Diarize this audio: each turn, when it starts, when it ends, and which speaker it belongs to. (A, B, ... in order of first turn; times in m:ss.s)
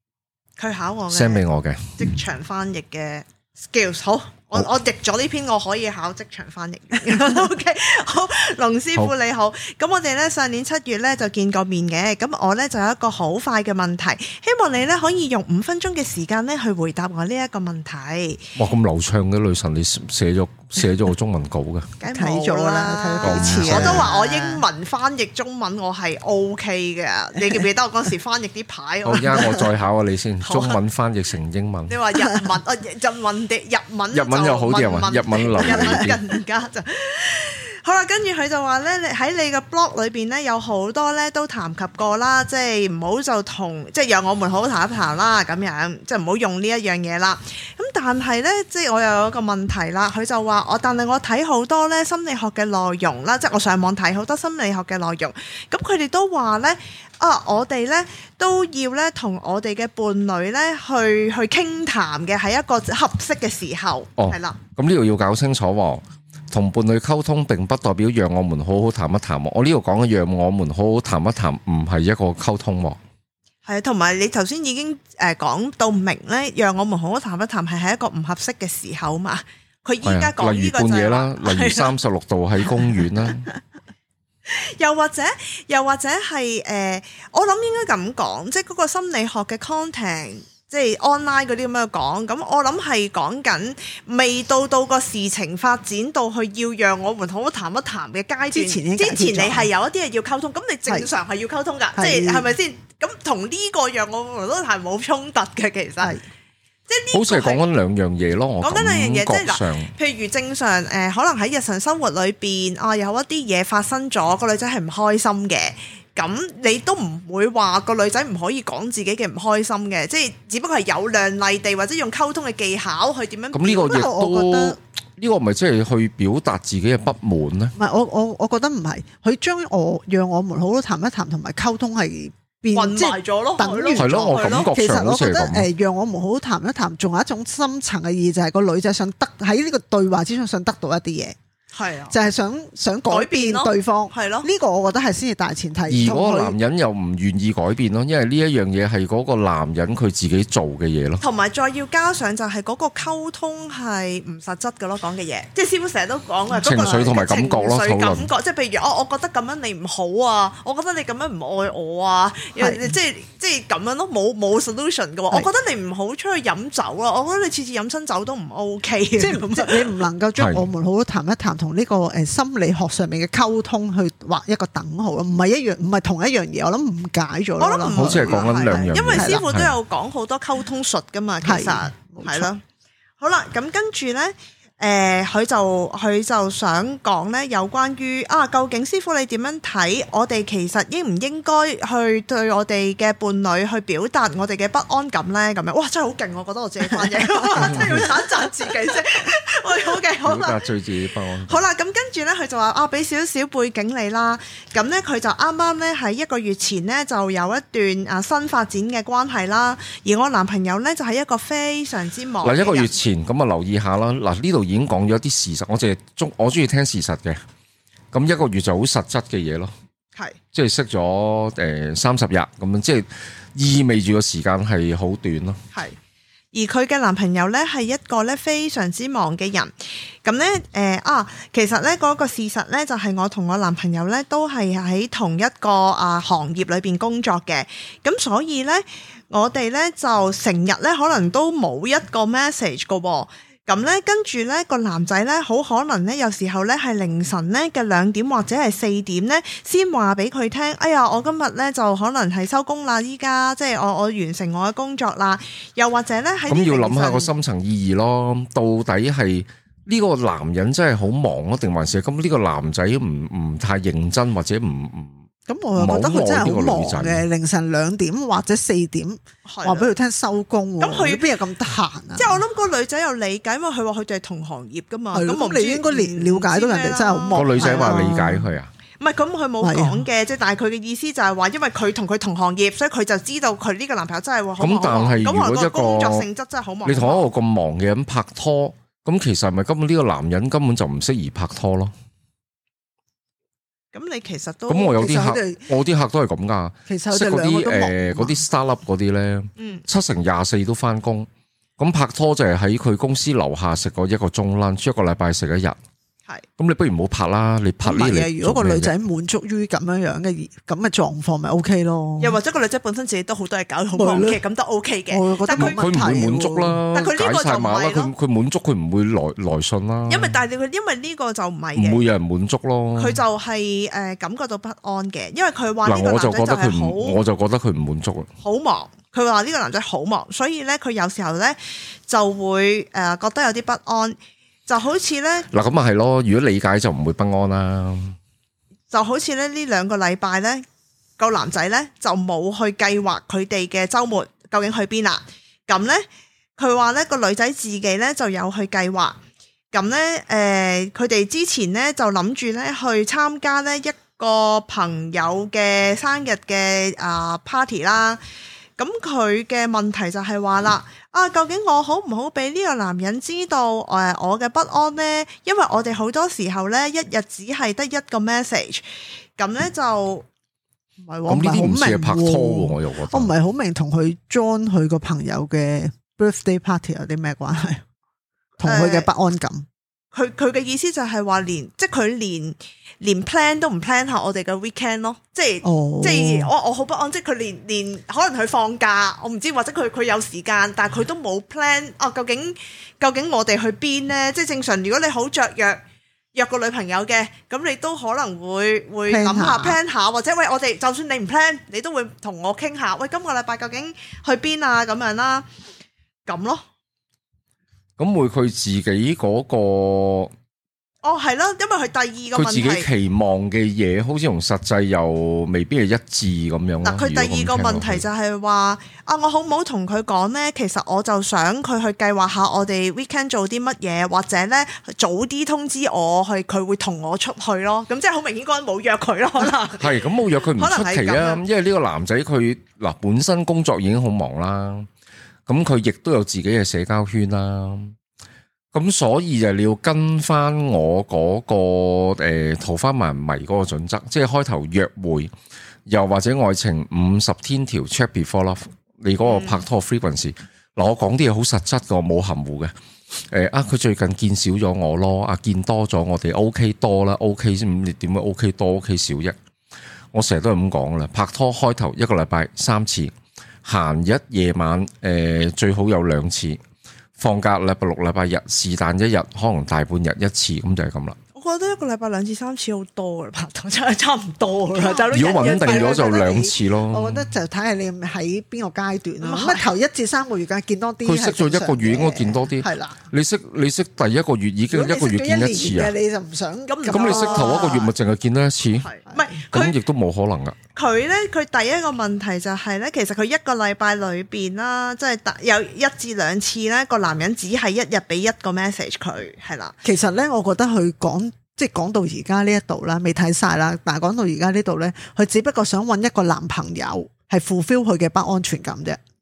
0:00.6-0:01.4 A
0:01.1-0:02.0 B
0:02.0-0:18.5 A
0:18.6-0:21.9 B
0:22.0-0:29.7 A
0:22.0-0:24.6 C
0:23.2-0:24.1 B
0:29.0-0:32.0 B
0:29.3-0:29.6 C
0:30.4-0:30.8 A
0:31.9-1:04.6 A
0:34.1-0:36.2 B
0:35.6-0:36.1 C
1:04.2-1:13.0 B
1:13.6-1:21.9 A
1:20.0-1:23.5 B
1:24.4-1:46.2 A
1:38.5-1:39.7 C
1:42.0-1:42.4 C
1:46.9-1:47.6 A
1:47.1-1:49.9 B
1:48.6-2:04.1 A
2:03.5-2:07.7 B
2:03.8-2:04.8 C
2:07.8-2:21.4 C
2:12.7-2:14.7 A
2:13.9-2:15.7 B
2:21.7-2:22.2 A
2:22.1-2:26.6 C
2:23.1-2:24.5 A
2:25.9-2:31.2 B
2:31.2-2:50.0 A
2:36.6-2:38.3 B
2:42.6-2:42.9 C
2:49.2-2:59.4 C
2:50.4-2:50.6 B
2:57.6-3:02.6 A
2:57.9-2:59.8 B
3:01.4-3:02.5 C
3:03.2-3:20.6 A
3:17.2-3:18.1 C
3:20.2-3:21.6 B
3:21.4-3:32.9 A
3:32.4-3:37.4 B
3:38.1-3:39.7 B
3:40.5-3:45.6 B
3:46.5-4:17.3 A
4:16.5-4:25.2 B
4:25.5-4:32.4 C
4:25.8-4:27.2 B
4:29.4-4:29.9 A
4:30.8-4:31.2 A
4:32.1-4:38.3 A
4:35.1-4:38.5 C
4:37.3-4:38.7 B
4:39.0-4:47.3 A
4:39.6-4:40.0 C
4:44.6-4:46.3 B
4:46.8-4:51.9 B
4:53.9-4:55.0 A
4:54.7-5:05.8 B
4:54.9-4:55.6 C
4:56.9-4:58.4 C
4:59.6-4:59.8 A
5:06.6-5:08.9 B
5:07.8-5:12.4 C
5:12.2-5:15.8 A
5:13.9-5:14.4 C
5:15.1-5:16.8 C
5:15.6-5:20.4 B
5:16.9-5:18.1 A
5:20.1-5:22.0 A
5:21.8-5:23.2 B
5:23.0-5:27.2 A
5:25.8-5:28.3 B
5:28.4-5:34.2 A
5:34.7-5:35.5 A
5:35.5-5:38.2 B
5:38.9-5:40.6 A
5:41.2-5:46.0 A
5:46.6-5:49.2 A
5:49.7-5:58.2 A
5:58.8-6:10.2 A
6:11.0-6:17.8 C
6:11.3-6:13.3 B
6:18.6-6:19.6 C
6:18.6-6:19.1 A
6:20.1-6:35.8 A
6:25.6-6:26.5 C
6:36.3-6:45.4 A
6:39.1-6:39.8 C
6:46.3-6:46.6 A
6:48.0-6:50.3 B
6:51.0-6:52.9 A
6:52.3-6:58.0 B
6:56.8-7:10.0 A
7:09.8-7:14.9 B
7:10.6-7:11.4 A
7:15.5-7:17.9 B
7:18.7-7:25.3 B
7:25.9-7:39.4 B
7:29.2-7:29.6 A
7:40.1-7:43.1 B
7:43.6-7:46.6 B
7:47.2-7:51.2 B
7:51.4-7:56.5 A
7:54.7-8:03.0 C
7:55.1-7:57.3 B
7:59.2-7:59.6 A
8:01.0-8:05.9 B
8:04.7-8:07.9 C
8:06.7-8:07.9 A
8:06.9-8:08.9 B
8:08.8-8:09.8 A
8:09.5-8:10.6 B
8:10.7-8:19.7 A
8:19.8-8:29.0 C